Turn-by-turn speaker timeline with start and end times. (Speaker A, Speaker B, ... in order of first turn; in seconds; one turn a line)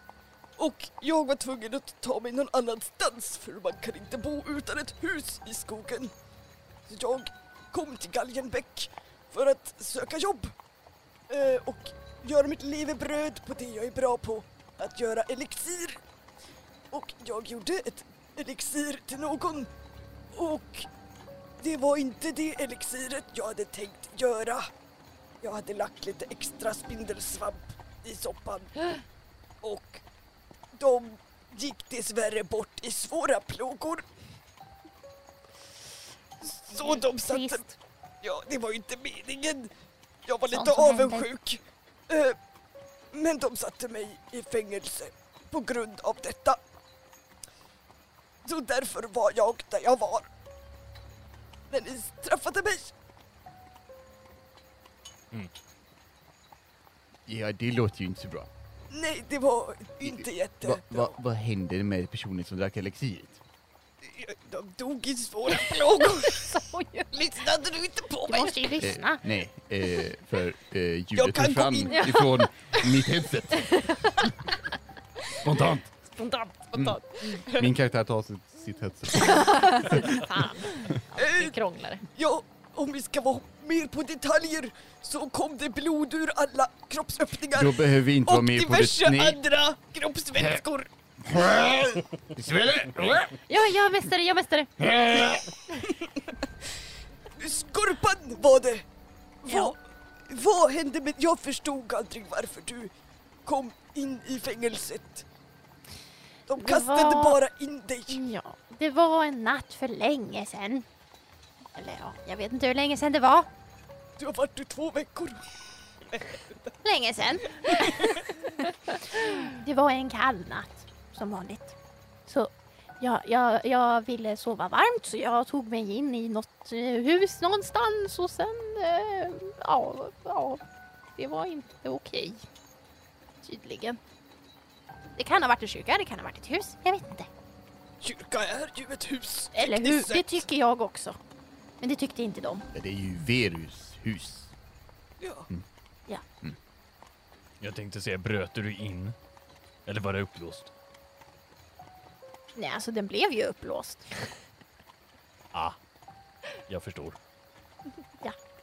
Speaker A: 0.6-6.1
Speaker A: 6.9-10.5
Speaker A: 11.3-16.0
Speaker A: 16.9-19.7
Speaker A: 20.3-20.9
Speaker A: 21.6-24.7
Speaker A: 25.4-29.0
Speaker A: 29.6-30.0
Speaker A: 30.7-34.1
Speaker A: 36.4-39.7
Speaker B: 36.8-37.7
Speaker A: 40.2-42.4
Speaker B: 40.5-41.3
Speaker A: 43.1-46.6
Speaker A: 48.4-50.3
Speaker A: 51.7-52.9
Speaker C: 57.3-58.5
Speaker A: 58.9-61.1
Speaker C: 60.0-63.4
Speaker A: 64.0-68.7
Speaker D: 66.4-67.1
Speaker B: 68.3-69.2
Speaker C: 68.8-73.9
Speaker A: 71.2-72.9
Speaker D: 71.9-72.2
Speaker D: 73.5-74.2
Speaker C: 75.4-76.0
Speaker D: 76.2-77.4
Speaker C: 76.7-80.2
Speaker A: 76.7-77.7
Speaker D: 79.2-82.1
Speaker A: 81.2-81.6
Speaker A: 82.1-90.9
Speaker C: 87.5-89.4
Speaker C: 91.2-93.4
Speaker D: 93.5-94.7
Speaker C: 94.8-95.5
Speaker A: 97.4-98.8
Speaker A: 99.4-102.9
Speaker B: 99.5-99.8
Speaker A: 103.5-105.2
Speaker A: 106.5-108.3
Speaker B: 106.6-107.4
Speaker B: 108.1-110.9
Speaker B: 111.8-113.5
Speaker A: 114.2-116.7
Speaker B: 116.8-130.6
Speaker A: 117.7-118.2
Speaker B: 131.2-132.4
Speaker B: 133.4-134.0
Speaker B: 135.2-137.3
Speaker A: 138.0-140.4
Speaker B: 139.5-141.2
Speaker B: 141.8-142.7
Speaker C: 142.7-144.5
Speaker A: 145.2-145.5
Speaker E: 147.6-149.2
Speaker E: 149.9-150.7
Speaker B: 152.6-154.1
Speaker E: 156.7-157.2